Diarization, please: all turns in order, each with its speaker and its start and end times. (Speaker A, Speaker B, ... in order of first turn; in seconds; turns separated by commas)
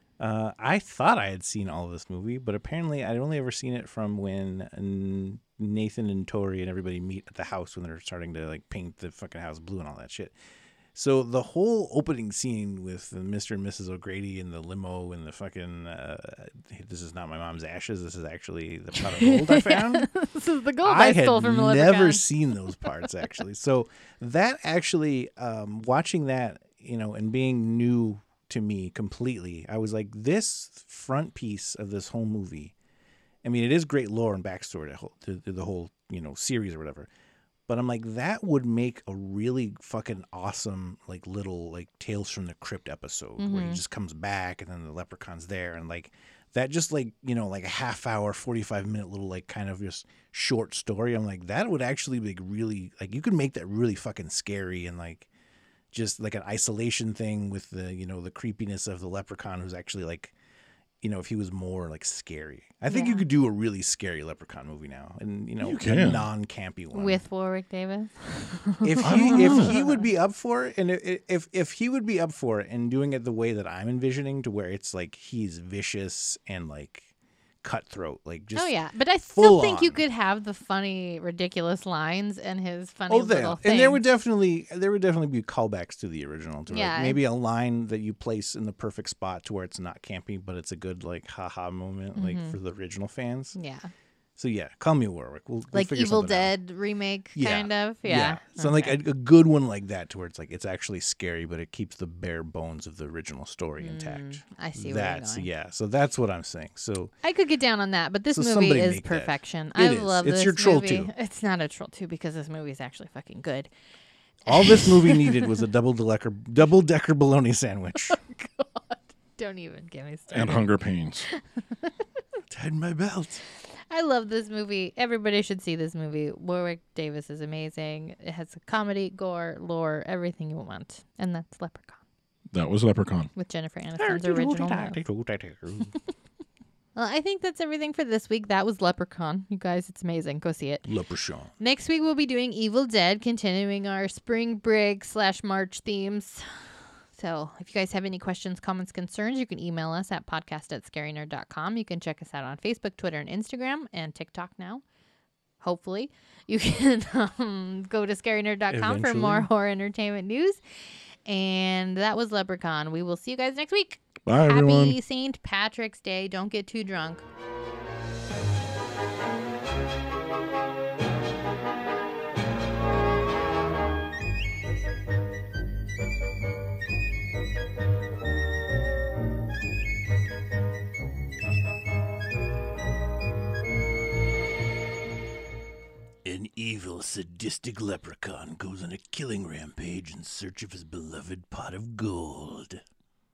Speaker A: 0.2-10.3, Speaker A: 10.9-20.1, Speaker B: 19.0-22.3, Speaker A: 20.8-32.7, Speaker A: 33.4-37.1, Speaker A: 37.7-55.3, Speaker B: 43.4-43.8, Speaker A: 55.9-60.3, Speaker A: 61.0-67.2, Speaker B: 62.9-63.2, Speaker C: 65.6-66.3, Speaker B: 66.9-70.0, Speaker A: 68.8-77.1, Speaker C: 69.0-69.7, Speaker A: 77.6-78.7, Speaker B: 78.5-84.0, Speaker A: 79.3-80.0, Speaker A: 83.1-93.5, Speaker B: 86.7-87.2, Speaker B: 92.1-92.5, Speaker B: 93.5-93.9, Speaker A: 94.4-96.5, Speaker B: 95.7-99.0, Speaker A: 97.3-107.1, Speaker B: 103.8-105.5, Speaker B: 107.2-113.7, Speaker A: 108.3-111.1, Speaker B: 114.5-115.4, Speaker A: 114.5-118.2, Speaker B: 118.1-120.6, Speaker C: 120.3-121.3, Speaker B: 121.3-121.9, Speaker A: 122.5-123.4, Speaker B: 123.9-132.0, Speaker C: 132.5-133.3, Speaker B: 133.3-135.0, Speaker A: 134.0-135.9, Speaker B: 136.9-140.8, Speaker A: 140.8-141.5, Speaker B: 141.6-146.4, Speaker B: 147.2-154.8, Speaker B: 155.6-160.6, Speaker A: 158.7-159.5, Speaker B: 161.3-167.2, Speaker C: 164.2-165.0, Speaker A: 186.2-192.8